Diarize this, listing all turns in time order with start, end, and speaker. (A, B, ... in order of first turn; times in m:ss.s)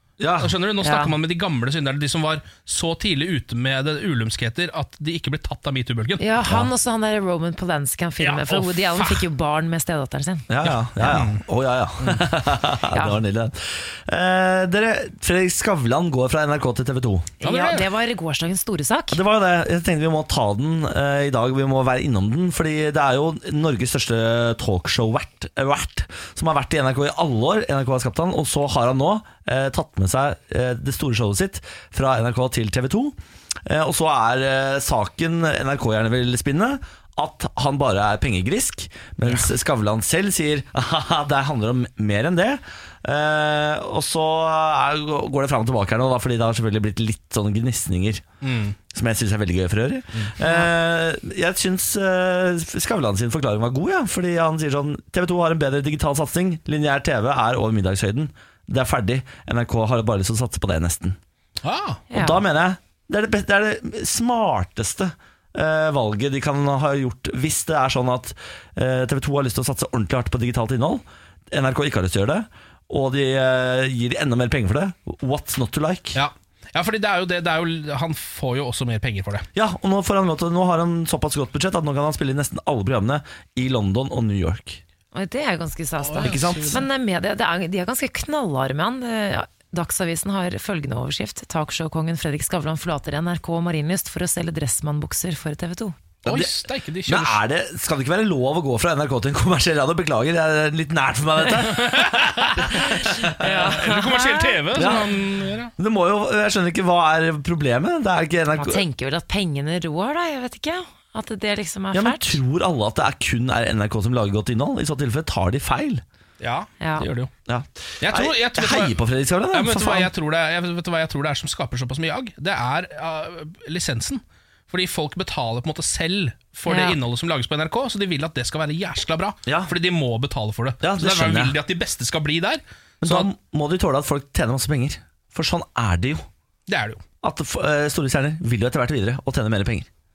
0:00.2-0:00.5 A
0:00.4-0:06.2 B
0:00.8-0:01.1 C
0:06.2-0:10.5 C
0:06.4-0:06.7 A
0:08.2-0:09.2 B
0:10.5-0:17.3 A
0:10.6-0:11.4 B
0:12.9-0:13.2 C
0:17.4-0:19.2 C
0:17.4-0:17.9 B
0:19.1-0:48.2 A
0:48.4-0:48.8 B
0:48.9-1:01.2 A
0:50.4-0:50.7 C
1:01.6-1:02.0 B
1:02.1-1:02.4 C
1:02.1-1:16.2 A
1:16.1-1:19.5 B
1:19.5-1:24.8 A
1:25.1-1:35.9 C
1:26.0-1:26.8 B
1:26.2-1:26.8 A
1:36.2-1:36.5 A
1:36.2-1:37.4 B
1:37.0-1:43.8 A
1:41.6-1:42.8 B
1:42.7-1:44.6 C
1:43.4-1:45.7 B
1:44.7-1:45.2 A
1:45.8-1:48.8 A
1:48.5-1:52.4 C
1:51.9-1:56.0 A
1:56.4-1:57.3 B
1:56.8-1:57.1 C
1:57.5-2:00.1 A
1:58.0-1:59.0 B
1:59.5-2:13.3 B
2:06.7-2:07.0 C
2:09.4-2:09.7 A
2:10.8-2:11.6 A
2:13.0-2:16.2 A
2:16.7-2:17.0 B
2:17.2-2:19.9 A